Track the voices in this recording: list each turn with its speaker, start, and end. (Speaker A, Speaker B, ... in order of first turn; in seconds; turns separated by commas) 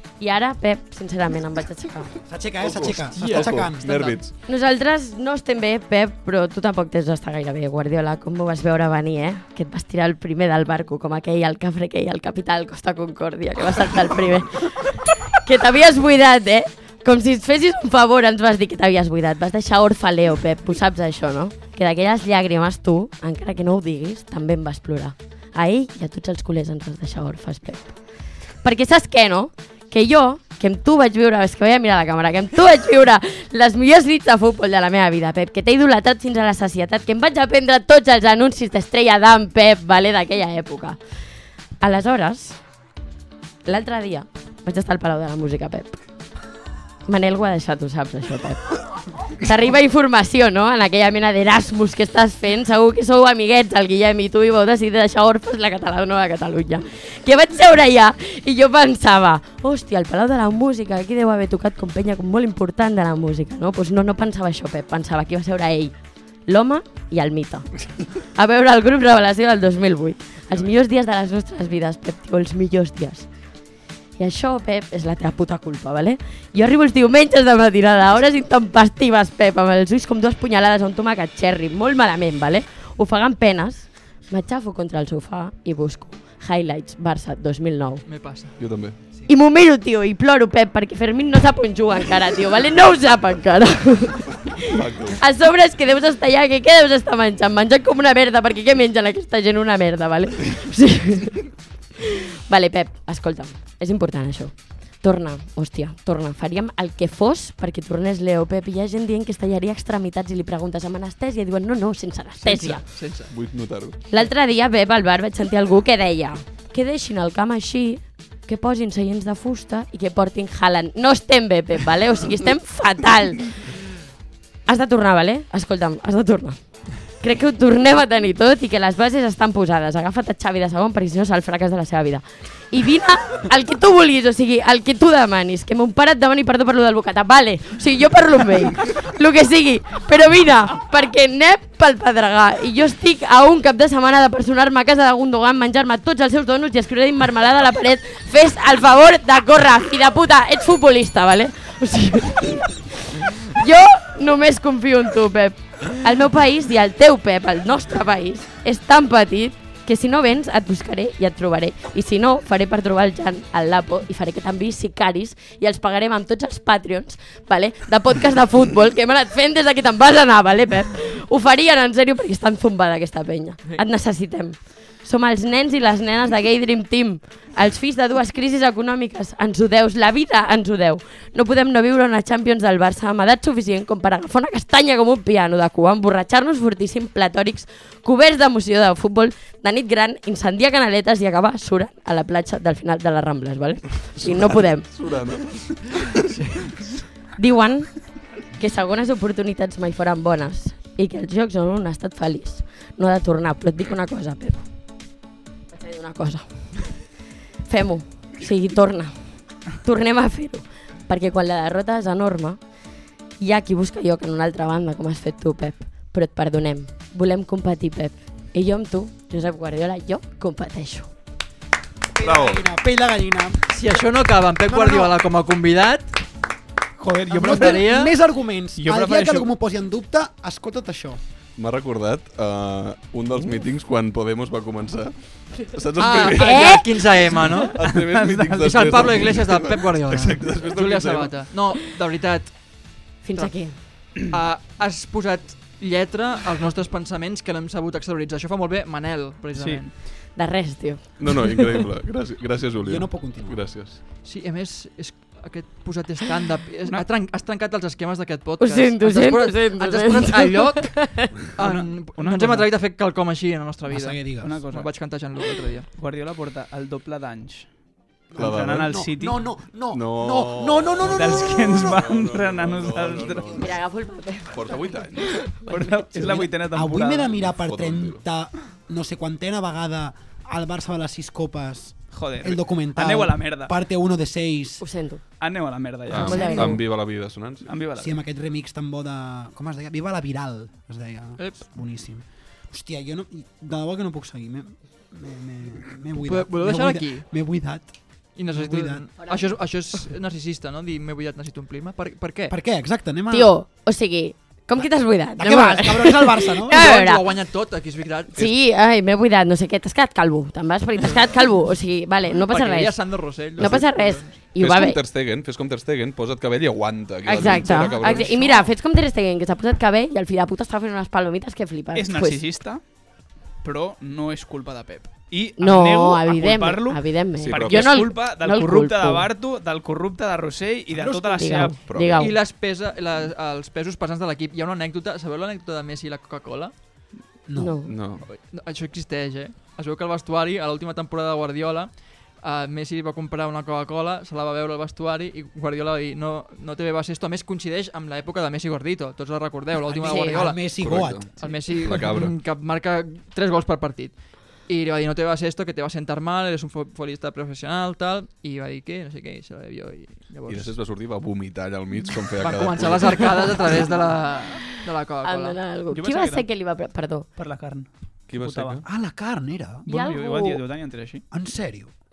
Speaker A: 0.2-2.1, Speaker B: 2.2-4.2, Speaker C: 2.6-4.3, Speaker D: 3.2-3.6, Speaker A: 4.5-27.9, Speaker A: 28.6-41.0, Speaker A: 41.8-42.6, Speaker A: 43.6-46.0, Speaker A: 47.0-48.8, Speaker A: 49.4-65.9, Speaker A: 66.5-73.3, Speaker A: 74.2-88.0, Speaker D: 88.0-88.6, Speaker C: 88.6-89.0, Speaker A: 89.3-101.5, Speaker C: 94.6-95.2, Speaker A: 102.0-112.8, Speaker D: 112.4-113.3, Speaker C: 113.3-114.0, Speaker A: 114.1-123.7, Speaker A: 124.7-194.9, Speaker C: 194.2-196.4, Speaker A: 197.3-204.6, Speaker A: 205.7-207.0, Speaker A: 207.7-209.1, Speaker A: 209.7-212.6, Speaker A: 213.4-221.1, Speaker B: 222.1-223.8, Speaker C: 222.2-222.7, Speaker D: 223.7-226.1, Speaker B: 224.6-225.2, Speaker E: 227.0-228.1, Speaker B: 227.3-231.2, Speaker D: 227.4-228.1, Speaker E: 228.8-229.5, Speaker C: 231.6-236.8, Speaker D: 236.0-237.8, Speaker A: 236.3-237.1, Speaker C: 237.7-241.5, Speaker E: 237.8-239.1, Speaker D: 238.6-242.6, Speaker A: 243.2-244.2, Speaker D: 243.3-250.0, Speaker E: 249.5-249.8, Speaker A: 250.1-251.8, Speaker C: 251.2-254.0, Speaker B: 252.8-253.6, Speaker D: 254.2-265.9, Speaker A: 258.6-261.4, Speaker E: 261.6-262.7, Speaker B: 263.9-264.6, Speaker E: 264.4-264.9, Speaker E: 265.9-267.7, Speaker B: 268.3-271.9, Speaker E: 268.4-269.6, Speaker C: 268.4-269.0, Speaker C: 269.9-273.8, Speaker E: 271.1-273.5, Speaker B: 273.1-273.5, Speaker A: 273.6-275.9, Speaker C: 274.5-275.4, Speaker E: 275.7-277.4, Speaker B: 276.1-284.8, Speaker C: 277.3-278.2, Speaker E: 282.1-283.7, Speaker A: 284.8-285.2, Speaker E: 285.4-288.2, Speaker C: 286.1-287.7, Speaker A: 286.1-286.8, Speaker B: 288.0-299.0, Speaker D: 291.4-291.7, Speaker D: 296.2-297.3, Speaker D: 298.3-302.6, Speaker A: 299.2-299.5, Speaker B: 302.5-303.5, Speaker A: 303.3-307.3, Speaker B: 305.4-306.8, Speaker D: 306.7-308.4, Speaker A: 308.3-315.0, Speaker D: 312.4-314.4, Speaker C: 313.6-313.8, Speaker C: 314.4-318.6, Speaker A: 317.2-322.4, Speaker E: 321.9-322.8, Speaker E: 323.6-331.8, Speaker A: 325.6-329.3, Speaker C: 327.4-328.1, Speaker B: 330.9-331.6, Speaker A: 331.3-332.4, Speaker C: 331.8-332.4, Speaker D: 332.2-336.7, Speaker B: 337.5-337.7, Speaker A: 337.6-337.9, Speaker C: 337.8-338.2, Speaker D: 338.2-350.7, Speaker B: 349.9-351.6, Speaker A: 350.0-350.4, Speaker C: 350.7-352.3, Speaker D: 351.4-360.7, Speaker C: 360.5-363.8, Speaker D: 362.4-365.6, Speaker A: 364.7-367.3, Speaker E: 365.9-366.5, Speaker E: 367.4-368.8, Speaker C: 368.3-368.8, Speaker B: 368.9-369.8, Speaker E: 369.8-371.2, Speaker A: 369.9-370.6, Speaker B: 371.3-371.9